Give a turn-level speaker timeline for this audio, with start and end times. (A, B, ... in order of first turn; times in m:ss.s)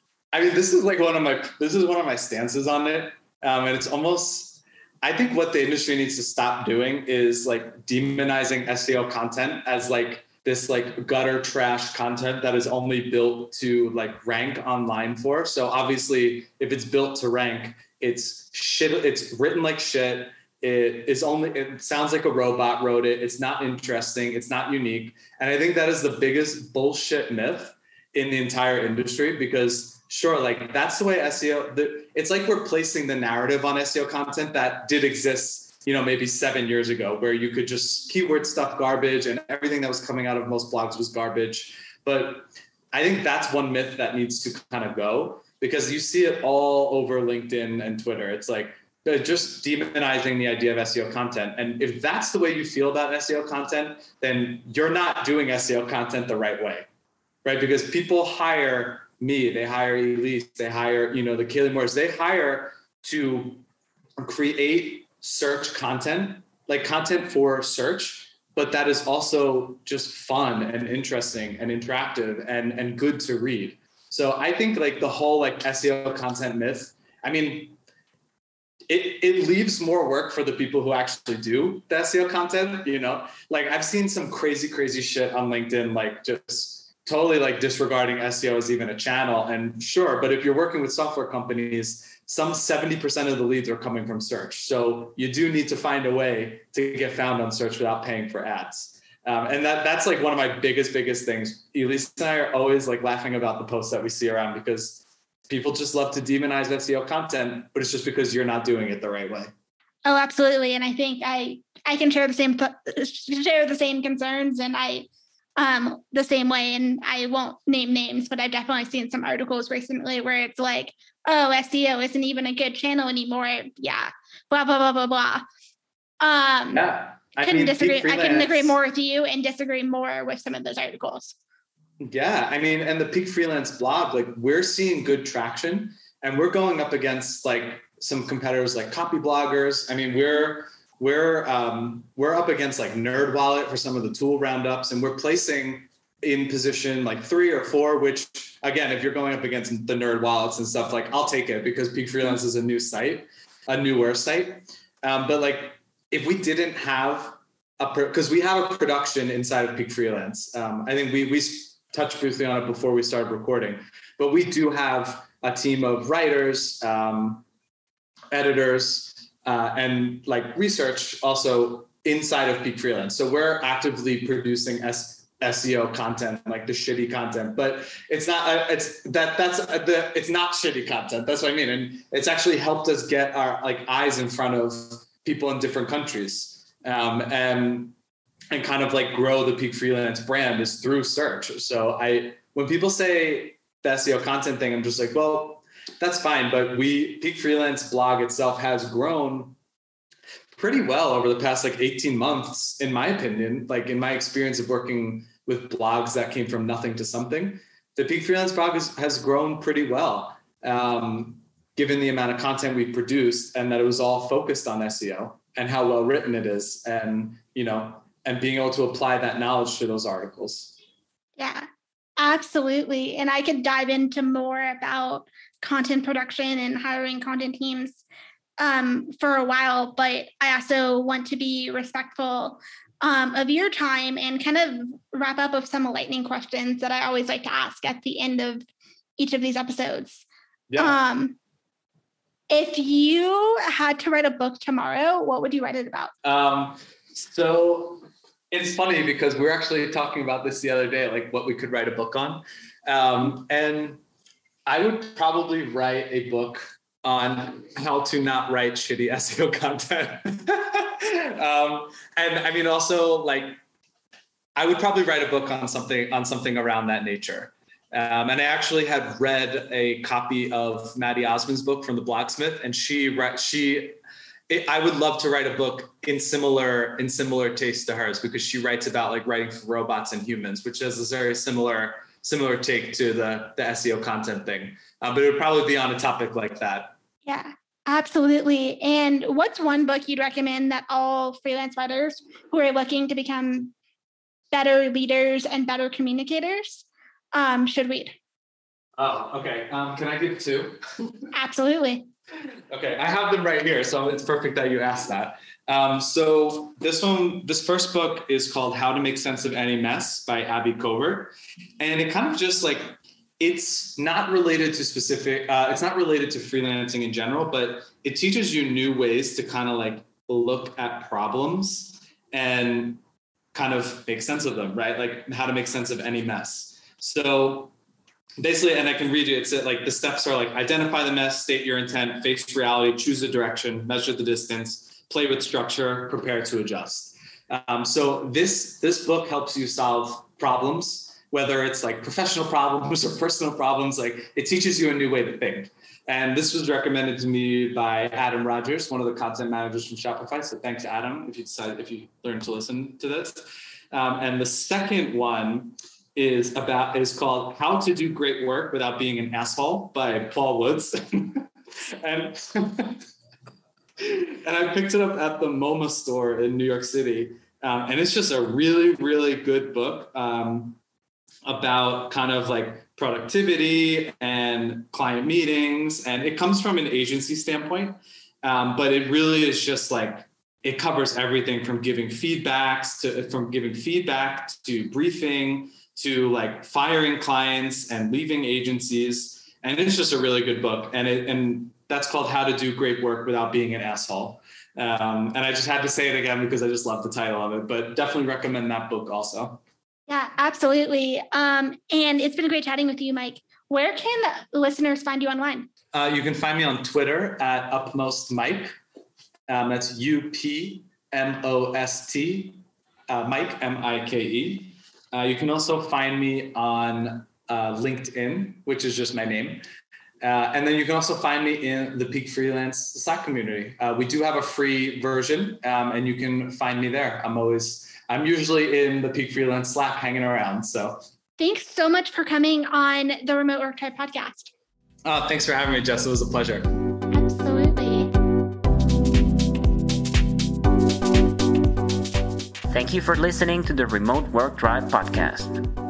0:00.3-0:56.9 A
0:57.4-1:03.6 A
1:04.2-1:17.8 A
1:18.9-1:49.5 A
1:50.0-2:05.4 B
2:06.2-2:11.4 B
2:06.7-2:08.8 A
2:12.0-2:47.4 A
2:48.3-3:07.9 A
3:08.5-3:19.5 A
3:20.6-3:40.7 A
3:41.4-3:41.7 B
3:42.2-3:48.0 B
3:48.6-3:58.6 B
3:59.2-4:00.2 B
4:00.7-4:01.0 A
4:00.8-4:01.4 B
4:02.5-4:06.1 B
4:06.2-4:14.0 A
4:14.6-4:23.6 A
4:24.6-4:34.0 A
4:34.5-4:47.0 A
4:47.2-4:53.7 B
4:54.5-4:58.1 B
4:59.0-5:00.8 A
5:01.3-5:02.0 B
5:02.7-5:23.0 A
5:23.5-5:27.7 A
5:28.4-6:03.0 A
6:04.0-6:10.8 A
6:11.4-6:39.6 A
6:40.1-6:45.7 B
6:45.9-6:48.7 A
6:49.5-6:59.6 A
7:00.2-7:11.0 A
7:11.4-7:14.5 B
7:15.0-7:16.7 A
7:17.1-7:18.1 B
7:22.7-7:25.6 C